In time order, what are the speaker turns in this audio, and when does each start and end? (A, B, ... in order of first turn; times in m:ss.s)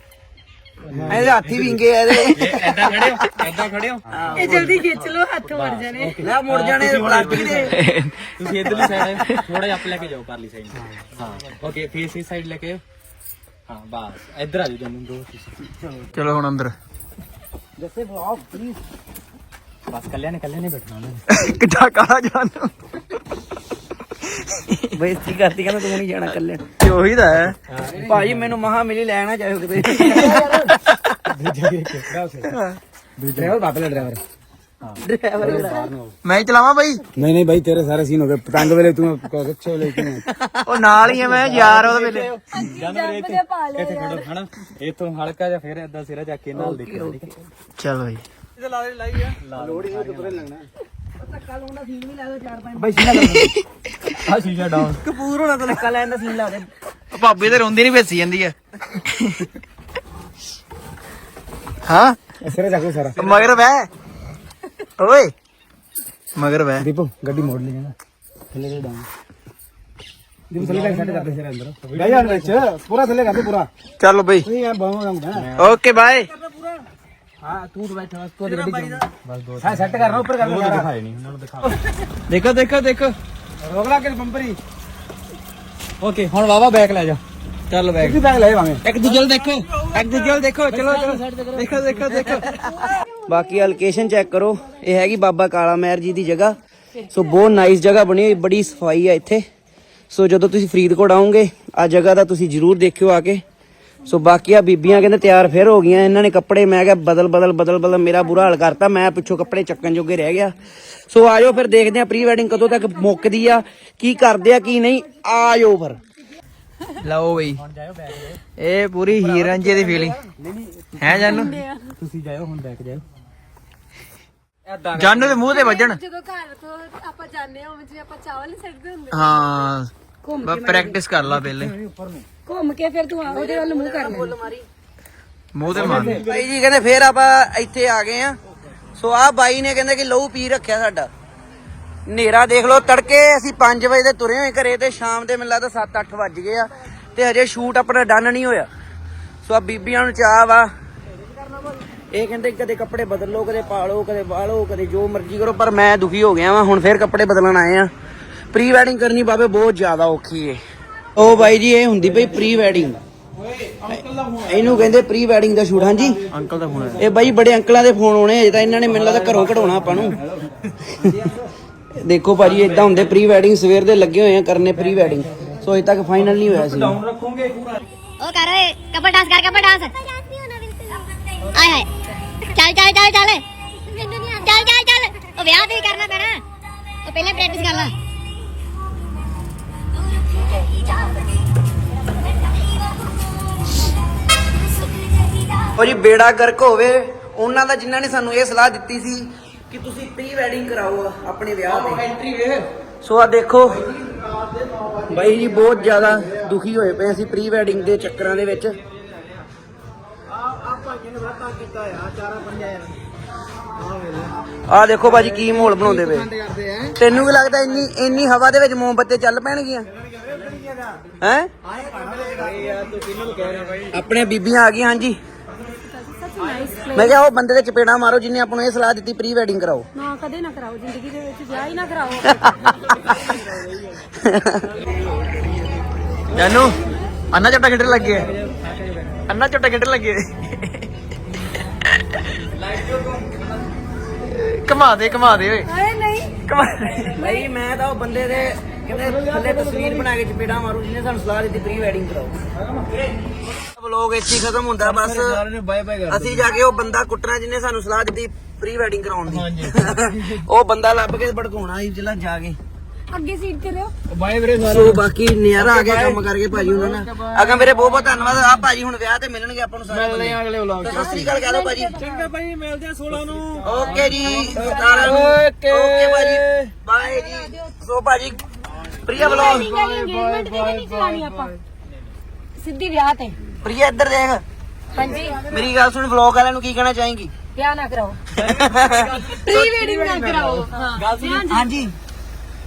0:00.9-0:01.6 A
0:00.9-0:01.6 B
0:01.1-0:03.2 C
0:02.2-0:12.8 A
0:04.1-0:04.8 C
0:04.4-0:06.2 D
0:06.2-0:07.8 C
0:07.8-0:08.3 E
0:13.7-0:15.6 A
0:16.2-0:16.8 E
0:17.8-0:18.8 B
0:19.9-0:21.2 A
0:21.3-0:22.7 E
0:24.4-0:24.8 E
0:25.0-0:26.7 C
0:26.8-0:27.6 E
0:27.7-0:28.4 A
0:27.9-0:28.2 B
0:28.0-0:30.6 C
0:30.2-0:30.7 B
0:31.3-0:32.6 B
0:33.2-0:34.2 B
0:35.0-0:35.9 C
0:35.4-0:36.1 B
0:36.2-0:37.0 E
0:37.2-0:40.3 B
0:40.7-0:42.3 E
0:41.0-0:47.4 A
0:42.5-0:44.3 D
0:46.5-0:47.3 C
0:47.8-0:48.2 E
0:48.6-0:50.5 A
0:49.5-0:50.7 B
0:51.8-0:52.6 C
0:52.8-0:53.6 B
0:53.2-0:53.5 E
0:54.2-0:55.0 A
0:55.0-0:56.7 C
0:57.1-0:59.4 E
1:01.9-1:02.2 E
1:02.4-1:03.4 B
1:03.2-1:03.9 E
1:05.0-1:05.3 E
1:06.4-1:06.9 E
1:06.8-1:07.9 B
1:08.5-1:09.1 B
1:10.5-1:13.7 B
1:10.6-1:12.7 A
1:14.0-1:14.5 E
1:14.4-1:15.6 B
1:15.3-1:16.0 A
1:15.6-1:16.3 E
1:17.4-1:19.0 B
1:18.4-1:21.7 A
1:19.6-1:20.9 B
1:22.3-1:23.2 E
1:23.6-1:24.6 B
1:26.0-1:27.2 A
1:27.7-1:28.2 E
1:28.0-1:28.8 B
1:29.1-1:29.4 E
1:29.9-1:32.5 A
1:29.9-1:30.4 E
1:30.1-1:31.1 B
1:31.6-1:32.5 E
1:33.3-1:39.4 C
1:40.1-1:43.4 C
1:44.1-1:50.6 C
1:51.1-1:56.0 C
1:57.0-1:57.6 E
1:57.6-1:58.4 A
1:58.6-2:00.2 E
1:59.2-1:59.6 B
2:00.4-2:01.3 A
2:01.0-2:01.6 E
2:01.1-2:01.9 D
2:02.0-2:03.0 A
2:04.7-2:05.5 A
2:05.0-2:06.0 E
2:05.5-2:09.2 D
2:09.1-2:09.9 E
2:10.2-2:11.0 D
2:10.4-2:11.7 E
2:11.2-2:12.2 A
2:12.4-2:14.3 D
2:13.2-2:14.7 C
2:15.5-2:16.2 E
2:15.7-2:16.3 A
2:15.8-2:16.3 B
2:15.8-2:18.4 C
2:19.0-2:21.1 C
2:22.1-2:28.7 C
2:29.4-2:30.7 C
2:32.1-2:37.9 C
2:38.5-2:40.6 C
2:41.2-2:43.0 C
2:43.8-2:46.2 C
2:46.3-2:47.0 E
2:47.0-2:50.2 C
2:49.0-2:50.3 A
2:51.0-2:51.3 C
2:52.0-2:57.0 C
2:52.4-2:53.0 A
2:54.9-2:55.5 A
2:56.2-2:57.8 A
2:58.2-3:01.9 F
3:02.6-3:03.4 F
3:04.2-3:06.4 F
3:07.1-3:07.9 F
3:10.3-3:11.3 F
3:15.8-3:22.1 C
3:23.0-3:23.9 C
3:25.0-3:28.8 C
3:32.1-3:32.7 B
3:34.7-3:36.3 C
3:35.3-3:36.9 B
3:37.0-3:39.9 C
3:41.2-3:41.5 C
3:41.8-3:43.9 A
3:43.9-3:45.2 C
3:45.8-3:47.2 D
3:46.9-3:49.9 C
3:50.0-3:52.5 D
3:52.3-3:53.1 C
3:54.2-3:54.8 C
3:56.4-3:56.8 E
3:57.3-3:58.3 E
3:57.9-3:59.2 A
3:59.3-4:00.7 E
4:02.9-4:03.2 A
4:04.3-4:05.7 E
4:05.6-4:06.3 D
4:06.5-4:12.4 C
4:07.2-4:07.5 D
4:09.0-4:10.0 B
4:12.6-4:12.8 B
4:13.6-4:15.4 C
4:14.8-4:16.5 B
4:16.1-4:22.6 C
4:19.3-4:19.9 B
4:23.1-4:23.9 D
4:24.1-4:25.0 B
4:24.6-4:32.0 C
4:30.2-4:30.7 E
4:30.9-4:32.3 D
4:32.2-4:34.0 A
4:33.6-4:38.4 C
4:33.8-4:35.0 B
4:34.2-4:35.1 D
4:35.0-4:35.4 A
4:35.2-4:36.3 E
4:37.0-4:37.7 D
4:39.0-4:39.7 C
4:39.2-4:41.6 D
4:42.6-4:43.4 D
4:43.6-4:44.4 C
4:44.9-4:45.5 D
4:45.4-4:47.3 C
4:47.6-4:48.2 D
4:48.4-4:49.8 C
4:48.4-4:49.4 A
4:49.3-4:51.7 D
4:51.0-4:51.5 A
4:51.4-4:52.0 C